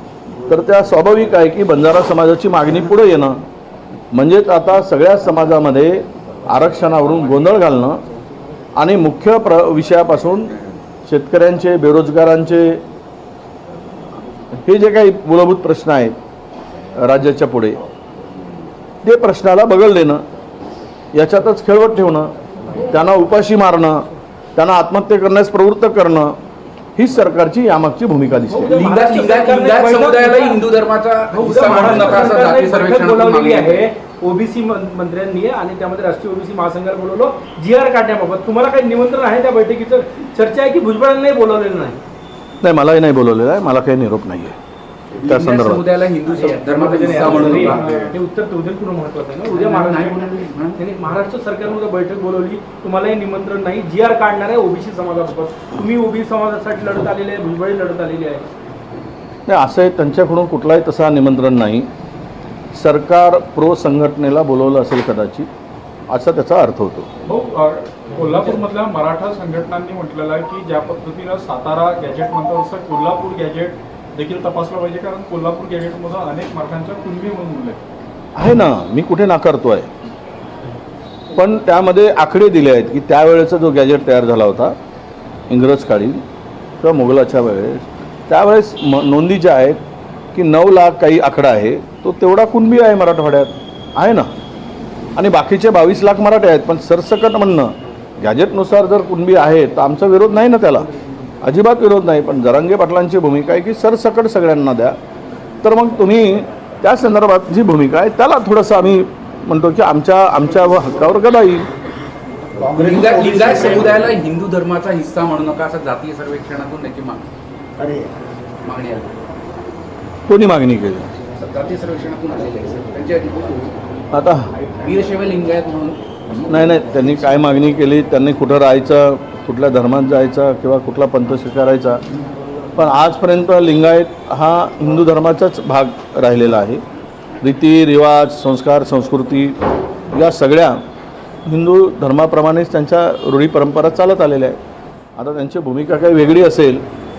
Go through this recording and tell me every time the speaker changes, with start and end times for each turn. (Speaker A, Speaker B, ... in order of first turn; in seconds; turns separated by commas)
Speaker A: 0.5-3.4, Speaker A: 4.1-8.0, Speaker A: 8.8-12.8, Speaker A: 14.7-16.2, Speaker A: 17.0-17.8, Speaker A: 19.0-20.2, Speaker A: 21.1-24.0, Speaker A: 24.6-26.4, Speaker A: 27.0-28.8, Speaker B: 28.5-30.6, Speaker C: 28.7-33.9, Speaker B: 31.3-42.0, Speaker A: 42.6-44.6, Speaker C: 45.2-48.1, Speaker A: 45.2-45.9, Speaker B: 46.3-58.5, Speaker D: 47.2-48.1, Speaker C: 49.5-50.8, Speaker A: 59.5-61.9, Speaker A: 62.7-65.5, Speaker A: 66.1-67.1, Speaker D: 67.3-77.8, Speaker A: 78.4-79.9, Speaker A: 81.3-84.8, Speaker A: 85.5-86.2, Speaker A: 86.8-89.8, Speaker A: 90.3-94.3, Speaker A: 95.2-100.9, Speaker A: 101.4-105.0, Speaker A: 105.6-111.7, Speaker C: 112.8-117.2, Speaker C: 118.6-119.1, Speaker A: 120.3-121.1, Speaker C: 121.4-123.7, Speaker A: 124.1-124.5, Speaker C: 124.8-126.0, Speaker A: 126.5-132.0, Speaker A: 132.8-136.8, Speaker A: 137.4-139.6, Speaker A: 140.1-140.8, Speaker A: 141.5-144.6, Speaker A: 145.2-146.8